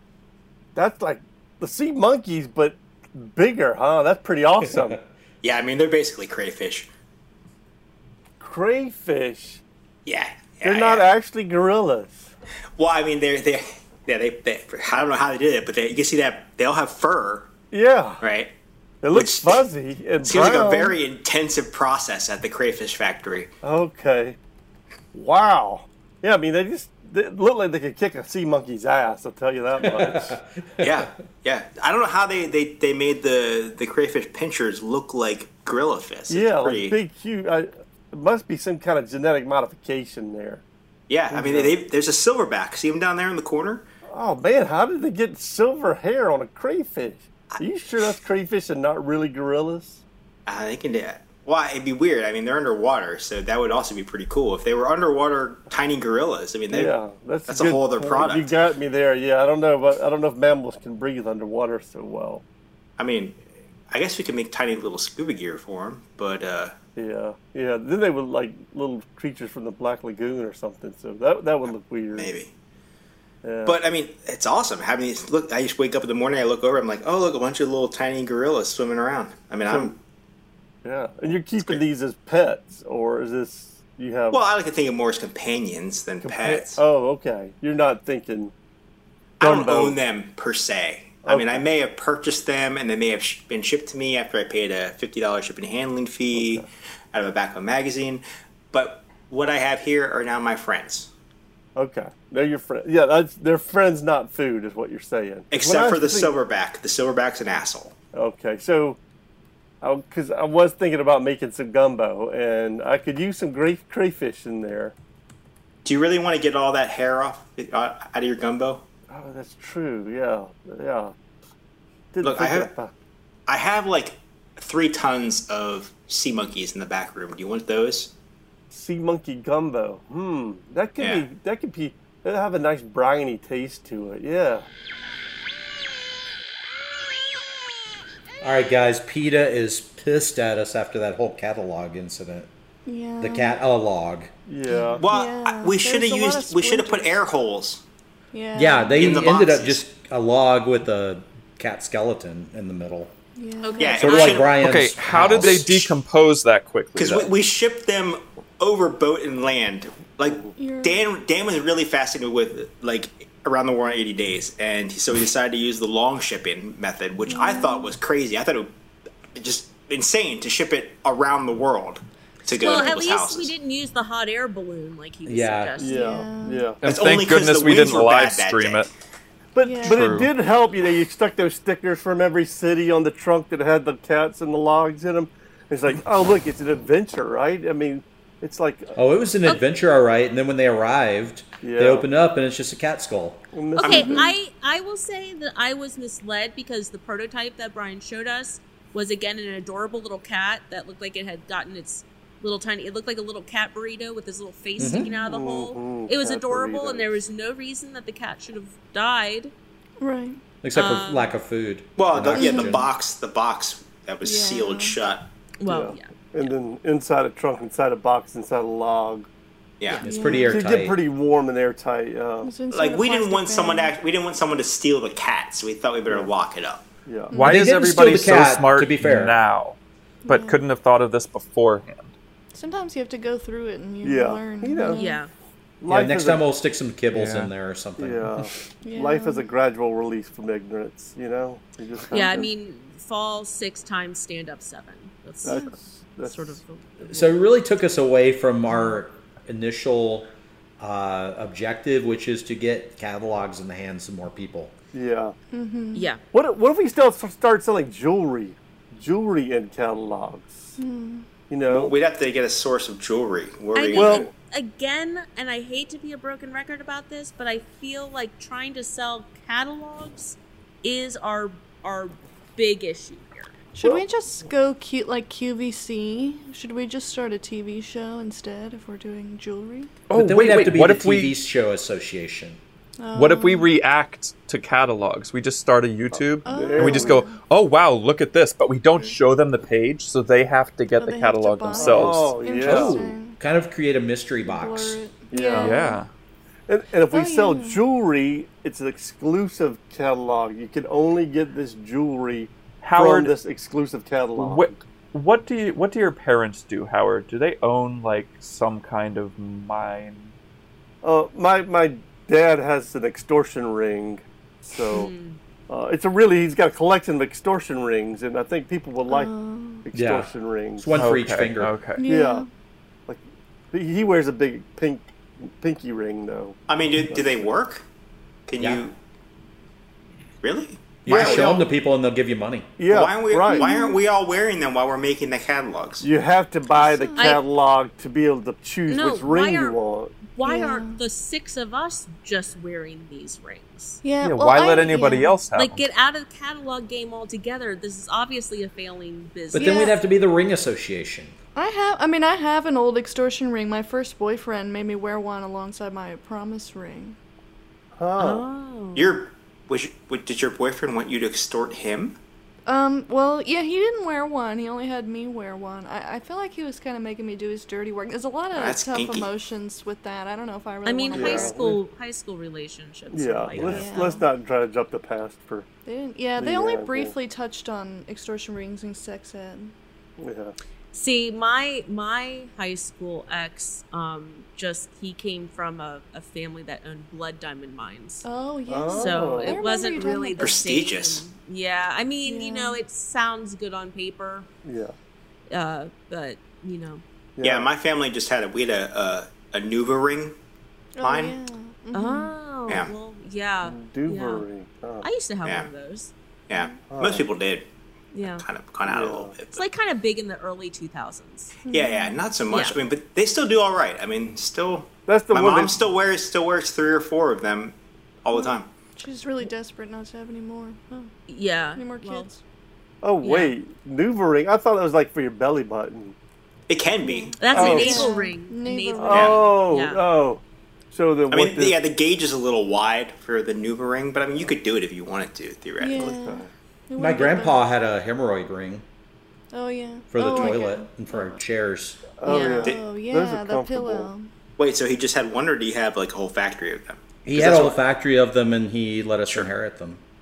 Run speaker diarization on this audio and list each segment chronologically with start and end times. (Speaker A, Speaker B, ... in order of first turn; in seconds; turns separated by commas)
Speaker A: 0.8-5.0, Speaker B: 5.4-6.9, Speaker A: 8.4-9.6, Speaker B: 10.1-11.1, Speaker A: 10.6-12.3, Speaker B: 12.8-17.5, Speaker A: 17.7-18.2, Speaker B: 18.2-18.5, Speaker A: 19.0-21.0, Speaker B: 19.1-19.6, Speaker B: 20.2-23.5, Speaker A: 23.6-24.4, Speaker A: 25.1-30.4, Speaker C: 29.9-30.9, Speaker B: 30.8-37.0, Speaker A: 36.3-40.6, Speaker B: 41.1-43.9, Speaker A: 41.3-41.8, Speaker A: 44.1-50.0, Speaker B: 50.5-56.9, Speaker A: 56.7-62.4, Speaker B: 57.5-58.6, Speaker B: 63.0-66.7, Speaker A: 67.0-72.3, Speaker B: 72.1-72.5, Speaker A: 73.4-73.8, Speaker B: 73.7-80.0, Speaker A: 79.7-80.0, Speaker A: 80.8-84.4, Speaker B: 84.3-86.8, Speaker A: 86.2-88.5, Speaker B: 89.4-101.1, Speaker A: 89.4-90.0, Speaker A: 91.2-91.7, Speaker A: 96.3-96.7, Speaker A: 101.8-106.3, Speaker B: 105.5-108.0, Speaker A: 108.1-109.0, Speaker A: 109.8-115.0, Speaker B: 115.8-118.8, Speaker A: 119.1-121.2, Speaker A: 122.1-122.9, Speaker B: 122.2-122.7, Speaker B: 123.5-128.1, Speaker A: 128.7-134.7, Speaker B: 131.0-131.3, Speaker C: 138.4-142.5, Speaker D: 142.9-143.6, Speaker C: 143.2-144.3, Speaker A: 144.5-145.1, Speaker D: 144.7-147.2, Speaker B: 145.0-147.8, Speaker D: 148.3-149.2, Speaker C: 148.6-153.1, Speaker B: 148.9-149.8, Speaker D: 153.4-154.2, Speaker E: 153.6-154.4, Speaker B: 153.8-156.0, Speaker C: 154.0-155.7, Speaker F: 154.6-157.3, Speaker B: 157.0-168.7, Speaker D: 160.6-161.0, Speaker D: 167.3-167.9, Speaker B: 169.3-173.5, Speaker E: 172.5-176.1, Speaker C: 175.3-175.8, Speaker A: 175.8-176.8, Speaker D: 175.8-176.8, Speaker F: 176.8-178.9, Speaker B: 176.8-178.9, Speaker A: 179.6-188.9, Speaker D: 179.6-180.2, Speaker F: 179.8-180.3, Speaker C: 188.9-193.5, Speaker A: 191.6-192.1, Speaker A: 193.5-194.3, Speaker E: 193.8-209.5, Speaker D: 193.8-194.3, Speaker C: 204.8-205.1, Speaker D: 204.8-205.1, Speaker A: 205.2-207.1, Speaker D: 210.0-210.4, Speaker C: 210.6-212.9, Speaker E: 210.7-211.3, Speaker B: 212.0-215.3, Speaker D: 212.3-212.8, Speaker D: 214.2-215.0, Speaker E: 215.6-216.1, Speaker A: 215.7-219.3, Speaker B: 219.8-220.2, Speaker C: 220.0-221.0, Speaker D: 220.1-220.7, Speaker A: 220.4-222.5, Speaker D: 222.4-223.9, Speaker B: 222.7-226.8, Speaker A: 227.1-228.4, Speaker D: 227.3-227.7, Speaker F: 227.3-232.1, Speaker C: 227.4-229.4, Speaker D: 230.3-230.6, Speaker D: 232.5-235.2, Speaker A: 234.0-235.0, Speaker E: 234.9-235.3, Speaker A: 235.8-236.4, Speaker C: 235.9-238.2, Speaker F: 237.1-237.5, Speaker A: 238.0-242.5, Speaker D: 238.8-239.5, Speaker E: 242.1-247.3, Speaker A: 245.4-246.6, Speaker D: 245.5-245.7, Speaker C: 247.1-254.7, Speaker A: 254.9-255.4, Speaker D: 255.5-256.1, Speaker E: 255.9-256.2, Speaker A: 256.3-260.8, Speaker D: 260.8-261.3, Speaker A: 261.5-261.9, Speaker B: 261.7-264.3, Speaker E: 263.7-273.5, Speaker A: 263.9-264.3, Speaker D: 273.7-279.9, Speaker F: 280.1-281.4, Speaker C: 280.1-282.6, Speaker D: 283.0-283.7, Speaker F: 283.1-292.4, Speaker A: 286.1-287.2, Speaker D: 286.4-287.4, Speaker D: 291.0-293.4, Speaker A: 291.7-293.0, Speaker C: 292.6-295.0, Speaker D: 294.4-296.0, Speaker A: 295.3-296.0, Speaker F: 295.6-296.1, Speaker A: 296.7-304.8, Speaker D: 297.1-297.8, Speaker F: 302.8-303.3, Speaker F: 304.4-310.4, Speaker A: 311.0-315.1, Speaker E: 314.9-315.4, Speaker A: 315.7-321.1, Speaker D: 319.1-319.9, Speaker C: 319.9-321.8, Speaker F: 320.9-322.0, Speaker D: 322.0-322.5, Speaker A: 322.0-322.5, Speaker A: 323.1-326.6, Speaker B: 326.7-327.9, Speaker A: 327.1-327.5, Speaker B: 328.5-329.0, Speaker B: 330.4-331.6, Speaker C: 331.1-332.7, Speaker A: 331.1-331.6, Speaker A: 332.8-333.7, Speaker B: 332.9-336.1, Speaker D: 333.5-334.0, Speaker A: 336.0-340.2, Speaker D: 336.8-337.3, Speaker E: 337.2-337.4, Speaker E: 338.9-344.0, Speaker D: 340.4-341.0, Speaker D: 344.0-345.4, Speaker F: 344.2-345.8, Speaker E: 345.5-349.9, Speaker C: 349.5-351.4, Speaker D: 349.6-349.9, Speaker D: 351.6-357.2, Speaker A: 358.0-358.4, Speaker E: 358.2-359.1, Speaker B: 358.9-362.2, Speaker D: 362.7-371.6, Speaker B: 368.5-369.3, Speaker E: 370.9-374.1, Speaker A: 371.1-371.8, Speaker A: 373.1-375.7, Speaker D: 373.7-374.3, Speaker D: 375.9-379.7, Speaker A: 376.4-377.1, Speaker A: 380.2-380.6, Speaker E: 380.9-388.3, Speaker D: 388.2-390.7, Speaker A: 388.7-389.7, Speaker E: 388.9-394.5, Speaker B: 390.4-391.3, Speaker D: 392.3-392.8, Speaker A: 394.6-395.0, Speaker E: 395.5-397.0, Speaker A: 397.4-397.7, Speaker B: 397.4-400.4, Speaker D: 401.0-402.3, Speaker B: 401.0-401.4, Speaker E: 401.9-404.4, Speaker B: 402.7-402.9, Speaker A: 403.6-405.1, Speaker E: 405.0-406.1, Speaker B: 405.4-405.7, Speaker B: 406.5-407.7, Speaker D: 406.5-406.8, Speaker A: 406.9-407.3, Speaker E: 408.1-408.4, Speaker B: 408.4-409.6, Speaker A: 408.9-409.3, Speaker E: 409.5-411.6, Speaker D: 411.7-412.2, Speaker B: 411.7-418.7, Speaker E: 412.5-412.8, Speaker A: 415.1-415.8, Speaker D: 418.4-421.1, Speaker E: 421.3-422.3, Speaker D: 421.8-422.4, Speaker A: 423.0-426.2, Speaker E: 423.2-423.5, Speaker B: 426.7-428.1, Speaker D: 427.0-429.4, Speaker E: 427.4-430.0, Speaker A: 427.5-428.1, Speaker A: 429.0-431.8, Speaker B: 429.1-429.4, Speaker B: 431.3-436.2, Speaker D: 435.8-437.6, Speaker A: 435.9-436.5, Speaker C: 437.0-438.8, Speaker D: 439.5-441.4, Speaker C: 440.1-442.1, Speaker A: 442.2-444.1, Speaker E: 442.2-442.7, Speaker D: 442.2-444.3, Speaker B: 444.6-447.8, Speaker C: 447.2-450.0